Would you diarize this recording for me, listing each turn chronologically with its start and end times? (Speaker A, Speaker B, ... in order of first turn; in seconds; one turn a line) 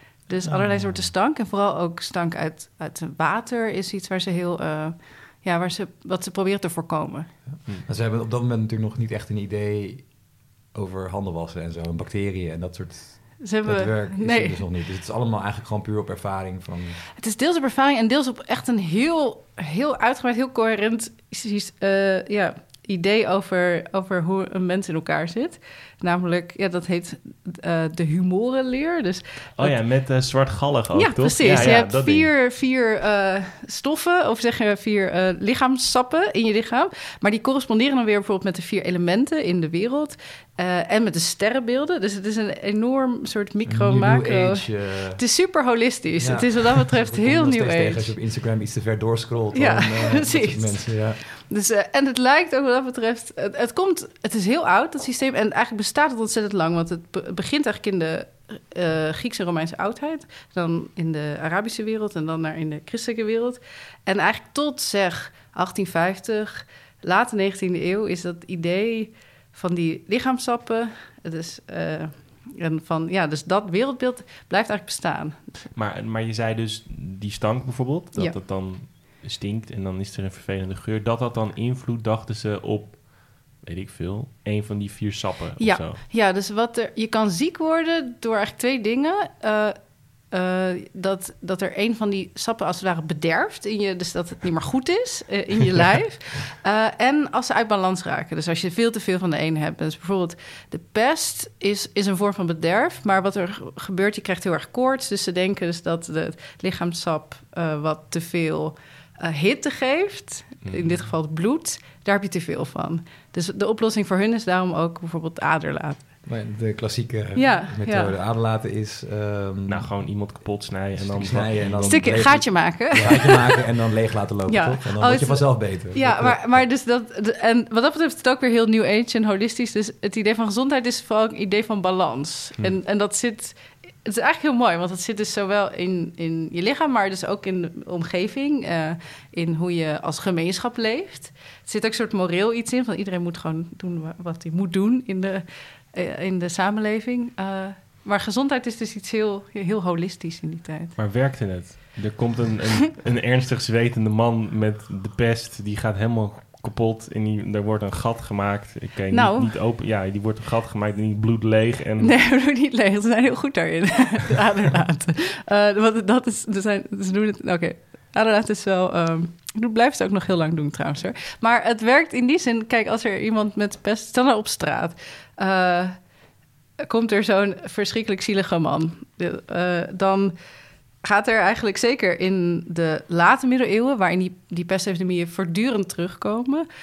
Speaker A: 0.2-7.3
Speaker B: 0.4-1.1
Speaker B: 7.6-17.0
Speaker A: 13.4-14.6
Speaker A: 17.2-29.9
Speaker C: 29.6-32.3
Speaker A: 30.9-48.1
Speaker B: 43.6-45.2
Speaker B: 46.2-51.2
Speaker A: 49.5-75.6
Speaker C: 75.7-86.0
Speaker A: 85.6-116.1
Speaker C: 110.6-111.1
Speaker B: 116.2-120.4
Speaker A: 117.3-118.1
Speaker C: 119.7-123.1
Speaker B: 121.0-126.6
Speaker A: 121.8-123.7
Speaker A: 124.4-150.9
Speaker C: 150.9-162.1
Speaker A: 159.1-159.6
Speaker A: 162.0-176.1
Speaker A: 176.8-180.3
Speaker A: 181.0-186.6